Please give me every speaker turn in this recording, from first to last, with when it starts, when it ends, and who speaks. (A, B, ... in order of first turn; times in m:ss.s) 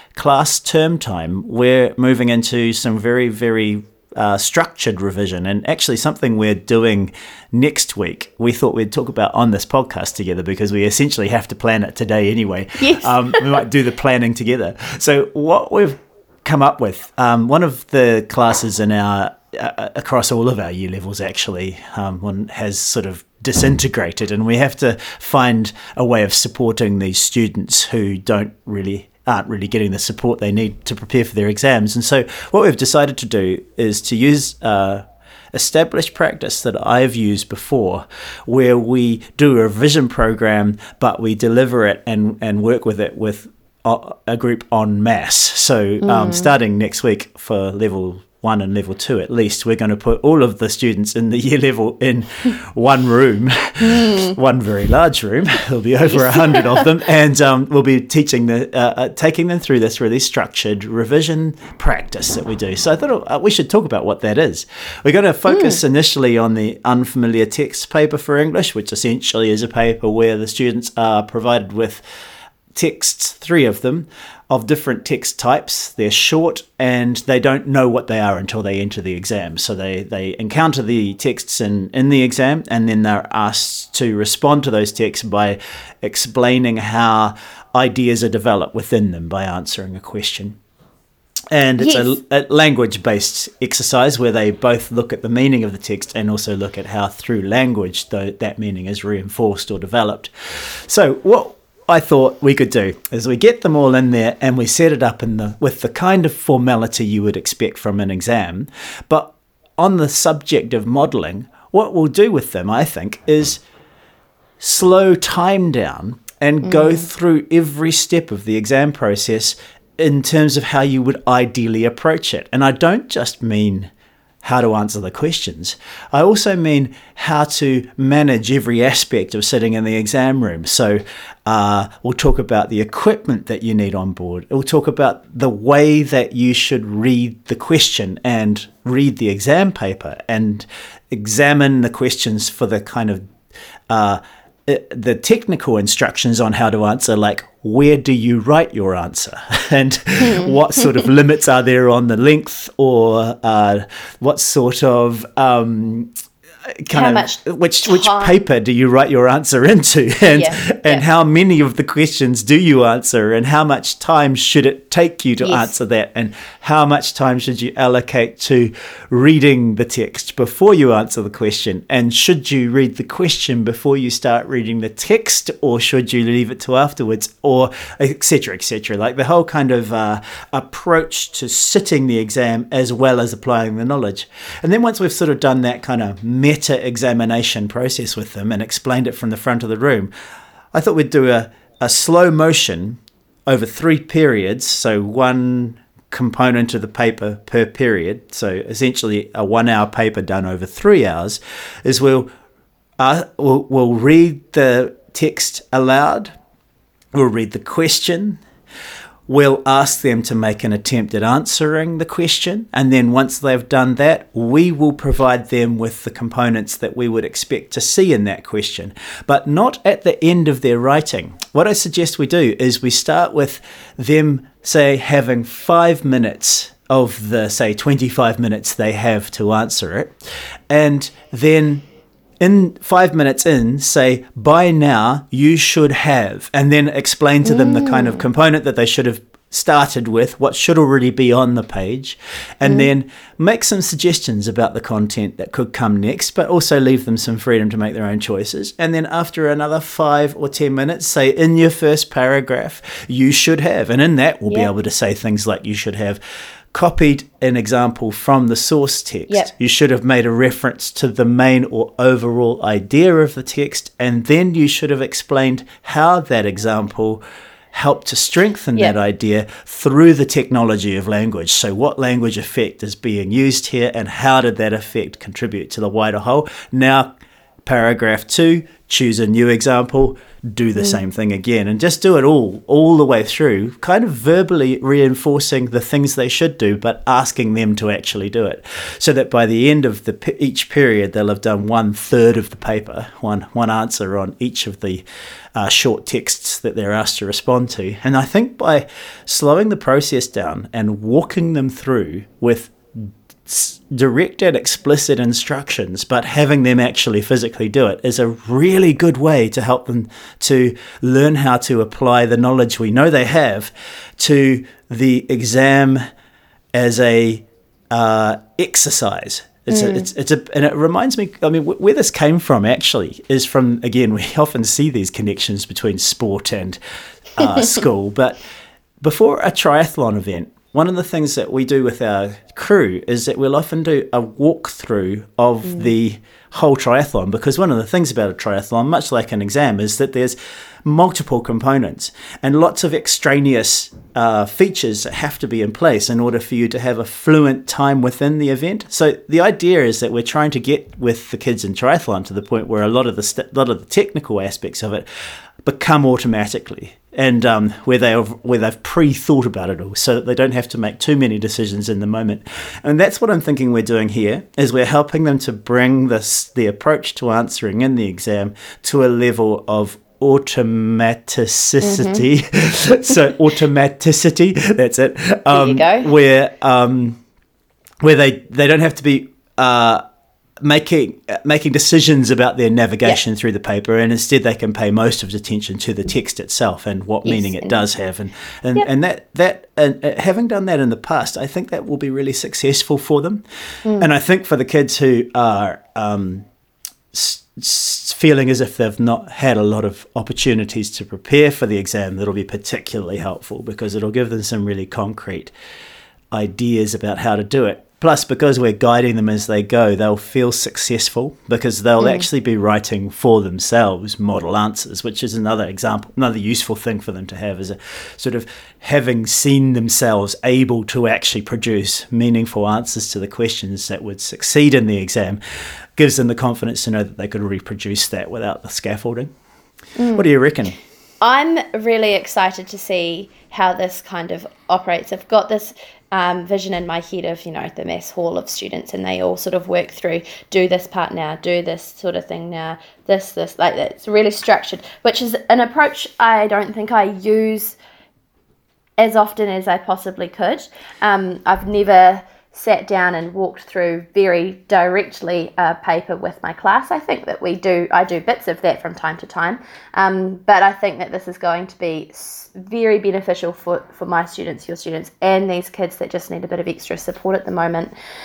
0:00.1-1:12.0 A
0:12.8-0:13.6 B
0:46.0-0:46.5 B
0:53.8-0:54.3 B
0:56.1-0:56.9 B
1:05.5-1:05.8 B
1:12.7-1:30.6 A
1:31.5-1:53.6 A
1:31.8-1:32.2 B
1:54.6-2:03.9 A
1:56.6-1:57.0 B
2:04.4-2:23.3 A
2:23.9-2:36.1 A
2:30.2-2:31.0 B
2:36.8-3:10.1 A
2:36.9-2:38.4 B
2:40.3-2:41.0 B
2:45.4-2:45.7 B
3:10.7-3:22.3 A
3:23.0-3:26.3 A
3:27.1-3:28.4 A
3:29.3-3:50.2 A
3:50.7-3:51.8 A
3:52.4-4:16.2 A
3:57.4-3:58.2 B
4:16.7-4:37.1 A
4:37.6-5:16.0 A
5:16.7-5:26.8 A
5:19.7-5:20.1 B
5:27.4-5:28.4 A
5:29.0-5:55.0 A
5:55.6-6:17.2 A
6:11.8-6:12.2 B
6:15.5-6:16.1 B
6:18.0-6:20.0 A
6:20.6-6:33.4 A
6:27.2-6:27.8 B
6:34.0-6:36.5 A
6:37.1-6:45.5 A
6:46.3-7:05.4 A
6:52.0-6:52.3 B
7:06.0-7:09.3 A
7:10.0-7:10.3 B
7:10.1-7:10.8 A
7:11.2-7:27.8 B
7:29.0-7:47.9 B